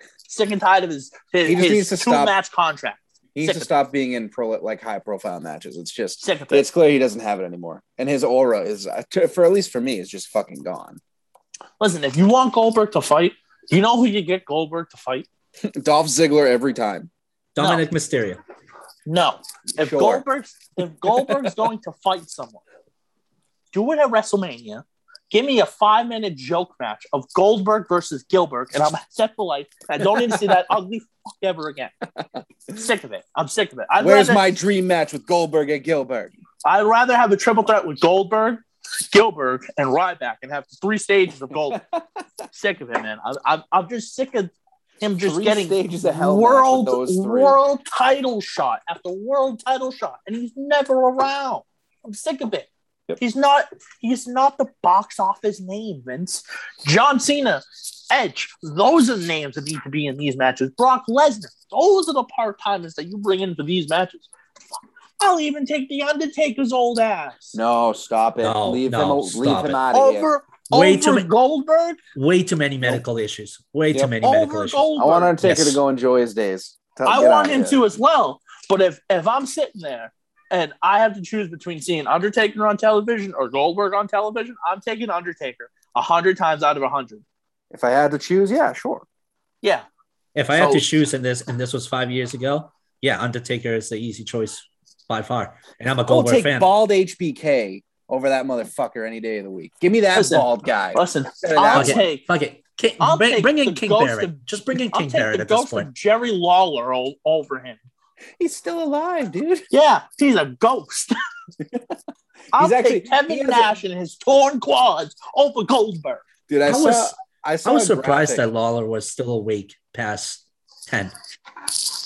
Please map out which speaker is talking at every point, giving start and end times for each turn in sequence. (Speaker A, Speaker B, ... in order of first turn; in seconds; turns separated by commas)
Speaker A: 0.3-3.7, Speaker B: 1.4-2.3, Speaker B: 3.4-11.0, Speaker A: 6.2-6.6, Speaker A: 11.8-15.3, Speaker B: 15.8-17.1, Speaker C: 17.6-18.4, Speaker A: 19.1-22.6, Speaker B: 19.8-20.2, Speaker A: 23.7-31.9, Speaker A: 32.7-34.4, Speaker B: 34.0-36.3, Speaker A: 36.6-41.8, Speaker A: 42.5-52.7, Speaker B: 45.2-47.6, Speaker A: 53.2-64.3, Speaker A: 65.2-67.6, Speaker B: 67.5-70.3, Speaker C: 68.4-69.8, Speaker A: 69.9-72.0, Speaker C: 70.7-71.3, Speaker C: 72.2-74.9, Speaker A: 74.2-75.4, Speaker B: 75.0-77.8, Speaker C: 75.4-75.8, Speaker A: 77.1-87.2, Speaker B: 87.7-89.1, Speaker C: 90.3-96.7, Speaker A: 90.6-90.8, Speaker B: 96.1-102.1, Speaker A: 100.1-102.3, Speaker C: 101.8-105.9, Speaker A: 103.0-107.8, Speaker B: 108.4-109.7, Speaker A: 109.7-111.2, Speaker A: 112.5-116.2, Speaker B: 112.6-113.7, Speaker B: 116.5-118.4, Speaker C: 116.7-117.1, Speaker C: 117.7-121.2